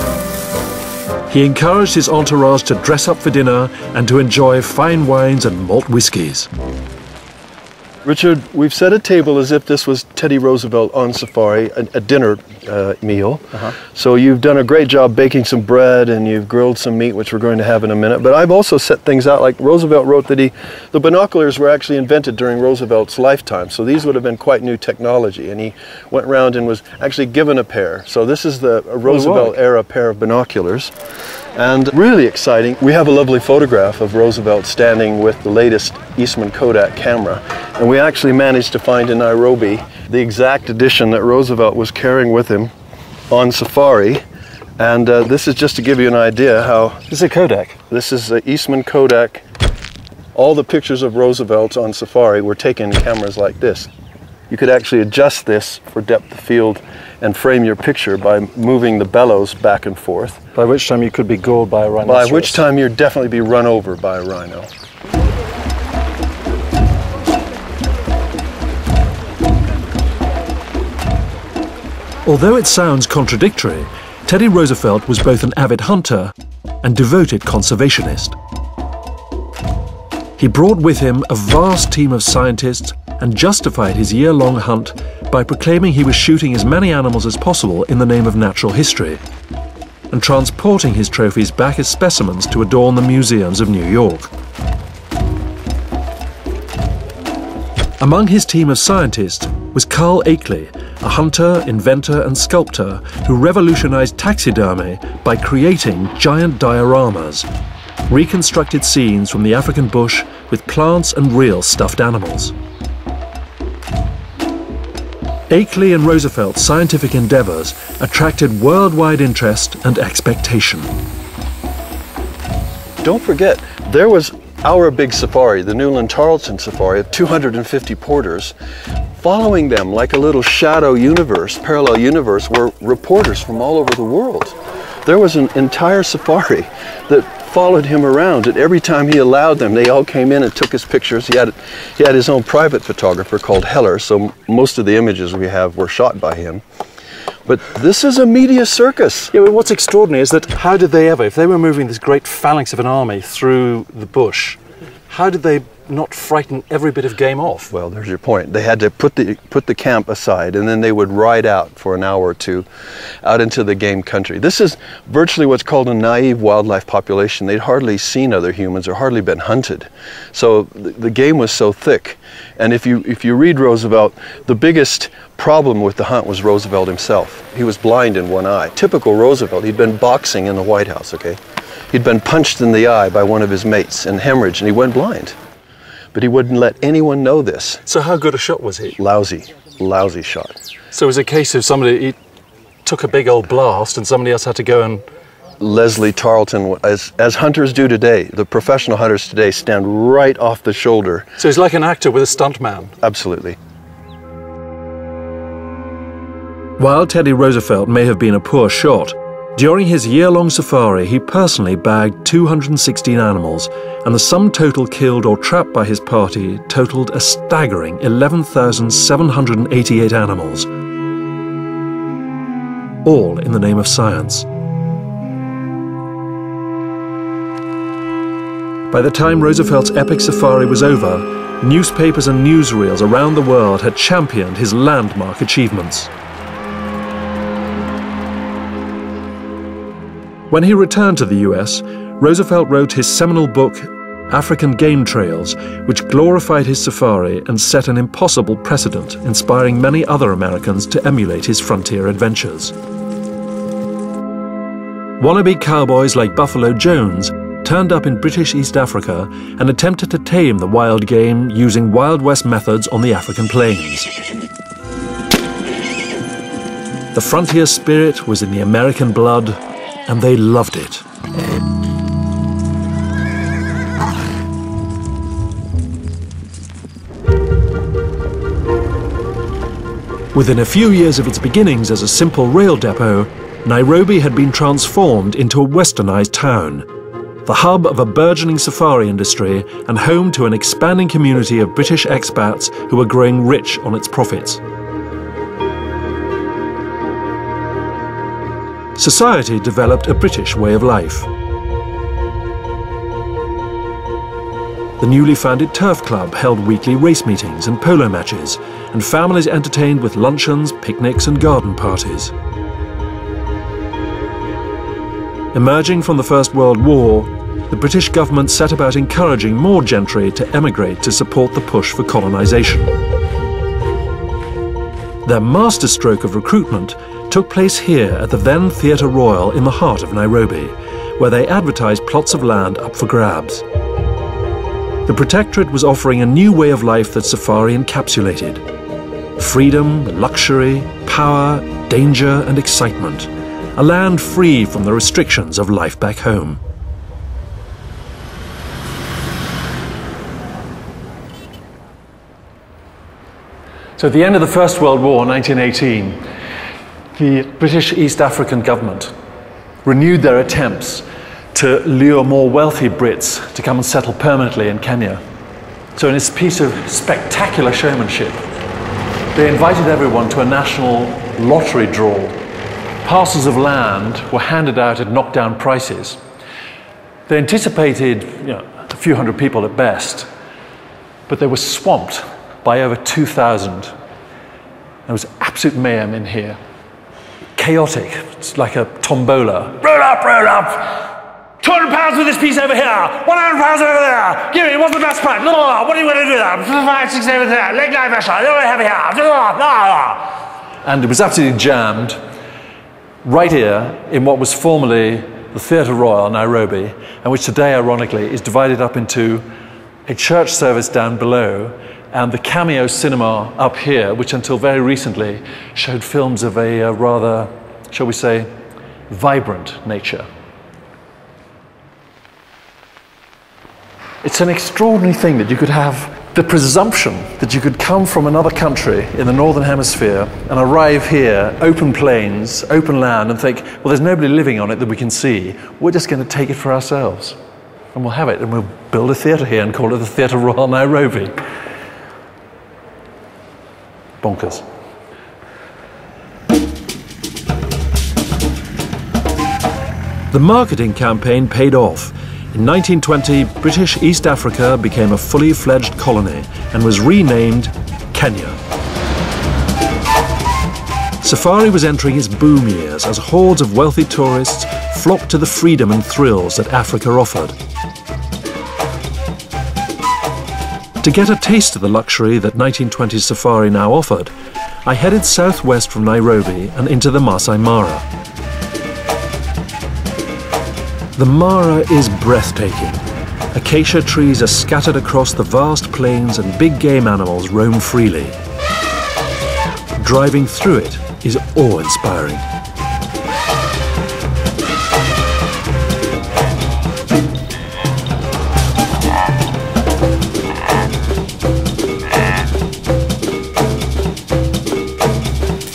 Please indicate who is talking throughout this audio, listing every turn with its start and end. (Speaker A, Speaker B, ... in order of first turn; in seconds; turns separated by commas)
Speaker A: 1.3-6.5, Speaker B: 8.1-30.9, Speaker C: 29.0-29.6, Speaker B: 31.5-42.7, Speaker B: 43.3-44.2, Speaker B: 44.8-47.0, Speaker C: 47.1-47.8, Speaker B: 47.9-49.4, Speaker B: 50.4-53.9, Speaker B: 54.5-60.4, Speaker C: 60.5-62.7, Speaker B: 62.0-64.7, Speaker A: 72.2-78.4, Speaker A: 80.4-89.2, Speaker A: 90.1-94.3, Speaker A: 98.0-107.5, Speaker A: 108.1-112.5, Speaker A: 115.5-120.9, Speaker B: 123.0-128.5, Speaker B: 129.2-146.6, Speaker B: 147.5-149.3, Speaker C: 149.3-157.7, Speaker B: 157.7-162.7, Speaker B: 163.2-185.4, Speaker B: 186.1-187.8, Speaker C: 187.9-189.0, Speaker B: 189.0-190.6, Speaker C: 190.9-192.2, Speaker C: 192.9-195.1, Speaker B: 195.6-201.3, Speaker C: 201.4-202.9, Speaker B: 203.0-203.6, Speaker A: 206.8-220.7, Speaker A: 223.0-224.5, Speaker A: 228.9-236.1, Speaker A: 240.5-252.7, Speaker A: 255.2-264.1, Speaker A: 267.1-271.0, Speaker A: 280.3-286.9, Speaker A: 287.4-294.6, Speaker A: 299.0-301.3, Speaker A: 305.0-312.3, Speaker A: 315.5-322.9, Speaker A: 325.2-333.6, Speaker A: 335.1-338.6, Speaker A: 339.4-346.6, Speaker C: 354.0-356.3, Speaker C: 357.1-359.1, Speaker C: 359.9-365.2, Speaker C: 366.0-368.4, Speaker C: 369.4-372.4, Speaker C: 373.0-376.2, Speaker C: 377.3-380.3, Speaker C: 381.3-383.9, Speaker C: 385.1-386.6, Speaker C: 387.6-391.1, Speaker C: 391.6-400.2, Speaker C: 400.8-402.2, Speaker C: 403.2-409.5, Speaker C: 410.1-418.5, Speaker C: 419.1-420.3, Speaker C: 424.2-437.4, Speaker C: 437.9-441.4, Speaker C: 444.2-444.6, Speaker A: 450.3-458.6, Speaker A: 461.2-467.6, Speaker A: 471.0-474.3, Speaker A: 474.9-478.1, Speaker A: 481.2-488.4, Speaker A: 490.0-492.4